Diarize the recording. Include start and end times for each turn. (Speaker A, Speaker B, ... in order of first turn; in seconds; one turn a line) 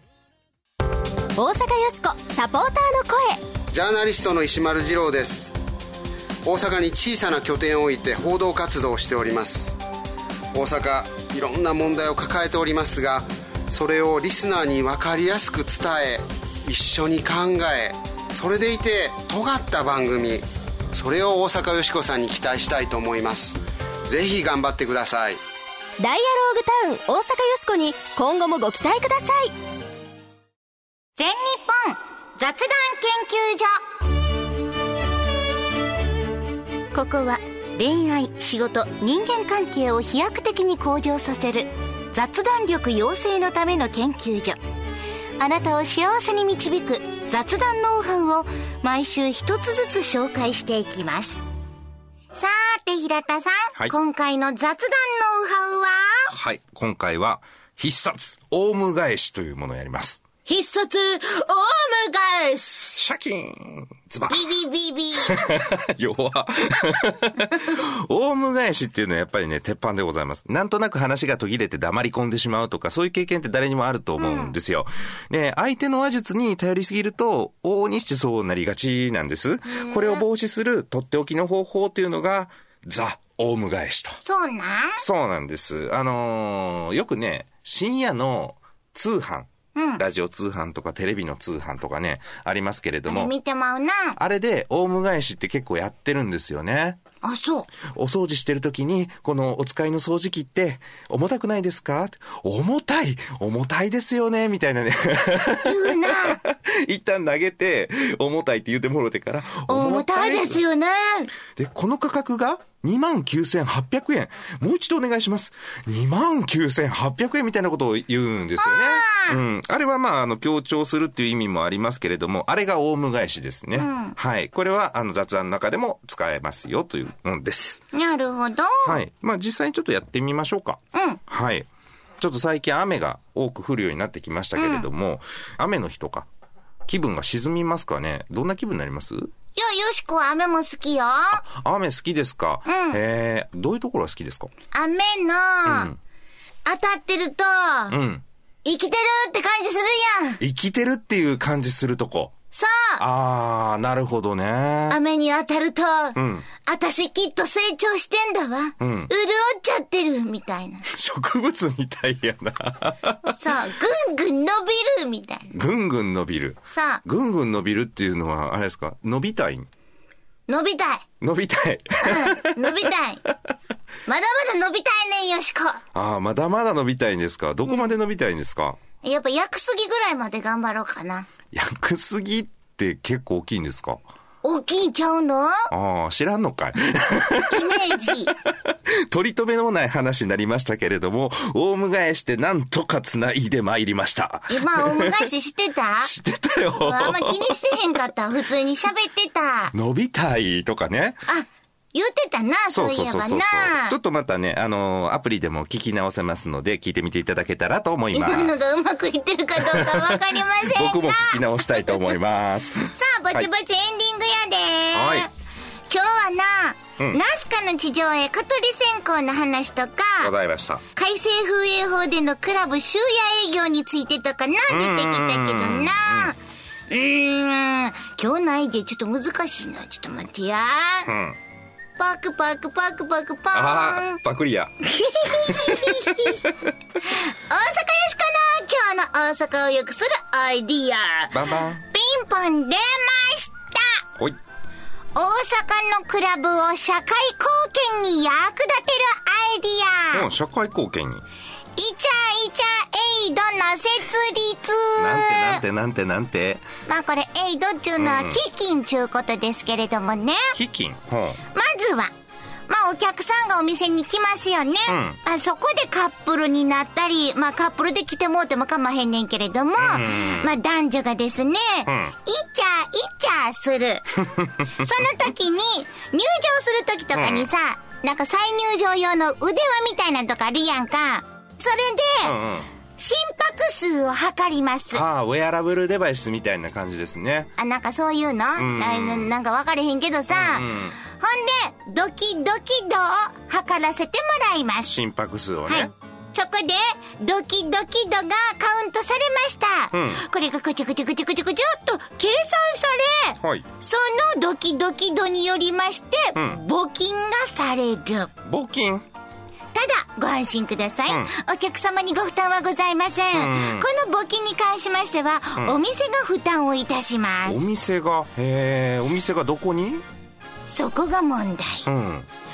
Speaker A: 1.4-3.4
Speaker B: 3.7-5.5
Speaker B: 6.5-9.8
Speaker B: 10.5-25.4
Speaker A: 26.0-29.5
Speaker C: 31.2-33.8
Speaker C: 36.9-44.6
Speaker C: 45.4-51.4
Speaker C: 52.4-56.3
Speaker D: 56.3-60.2
Speaker C: 60.5-63.0
Speaker D: 63.0-64.5
Speaker C: 64.3-65.5
Speaker D: 65.2-84.2
Speaker C: 74.2-74.5
Speaker C: 79.7-80.2
Speaker C: 84.2-85.0
Speaker D: 85.0-93.3
Speaker C: 89.8-90.0
Speaker C: 93.1-94.2
Speaker D: 94.2-97.0
Speaker C: 97.2-97.7
Speaker D: 97.9-110.6
Speaker C: 105.6-106.4
Speaker C: 109.7-111.3
Speaker D: 111.6-127.8
Speaker C: 118.6-119.4
Speaker C: 123.8-124.2
Speaker C: 127.9-129.0
Speaker D: 128.8-131.7
Speaker C: 130.9-131.2
Speaker D: 132.2-136.3
Speaker C: 134.6-134.9
Speaker D: 136.9-139.3
Speaker C: 139.6-141.4
Speaker D: 141.3-144.5
Speaker C: 142.7-143.0
Speaker C: 144.7-145.9
Speaker D: 145.7-146.0
Speaker C: 146.7-148.0
Speaker D: 147.9-148.2
Speaker C: 148.7-150.4
Speaker D: 150.4-152.3
Speaker C: 152.5-153.0
Speaker D: 153.0-155.0
Speaker C: 154.9-160.9
Speaker D: 156.2-156.5
Speaker D: 158.8-159.1
Speaker D: 160.9-163.3
Speaker C: 163.3-165.5
Speaker D: 165.5-169.7
Speaker C: 166.7-167.0
Speaker C: 170.5-171.1
Speaker D: 171.2-172.8
Speaker C: 172.0-173.2
Speaker C: 174.1-175.8
Speaker D: 175.9-178.8
Speaker C: 179.0-181.3
Speaker D: 181.5-184.0
Speaker C: 184.4-185.7
Speaker D: 185.7-195.3
Speaker C: 187.4-188.3
Speaker C: 194.5-196.1
Speaker D: 196.0-197.6
Speaker C: 196.7-199.7
Speaker D: 199.7-201.2
Speaker C: 201.3-204.0
Speaker D: 202.7-208.6
Speaker C: 208.1-212.2
Speaker D: 209.6-213.5
Speaker C: 212.9-215.3
Speaker D: 214.9-215.3
Speaker C: 215.9-220.3
Speaker D: 220.2-220.8
Speaker C: 220.9-231.1
Speaker D: 224.7-226.3
Speaker D: 231.1-231.4
Speaker C: 232.0-234.2
Speaker D: 233.5-236.7
Speaker C: 234.8-236.5
Speaker C: 237.0-244.0
Speaker D: 241.3-241.8
Speaker C: 245.2-250.3
Speaker D: 250.1-251.2
Speaker C: 251.8-255.6
Speaker D: 255.0-256.7
Speaker C: 256.9-260.6
Speaker D: 258.0-258.4
Speaker D: 260.5-261.4
Speaker C: 261.5-262.1
Speaker C: 262.7-274.1
Speaker D: 264.9-265.2
Speaker D: 269.8-270.5
Speaker D: 271.9-272.1
Speaker D: 274.2-274.8
Speaker C: 274.6-282.3
Speaker D: 277.1-277.5
Speaker D: 282.2-282.7
Speaker C: 283.0-285.0
Speaker D: 284.9-287.5
Speaker C: 287.6-295.0
Speaker D: 288.6-289.3
Speaker D: 290.3-290.9
Speaker D: 294.9-295.9
Speaker C: 295.7-308.3
Speaker D: 299.9-300.2
Speaker D: 303.4-303.7
Speaker D: 308.4-309.1
Speaker C: 309.7-317.7
Speaker D: 313.3-313.9
Speaker D: 317.5-320.0
Speaker C: 320.7-321.9
Speaker D: 321.9-322.3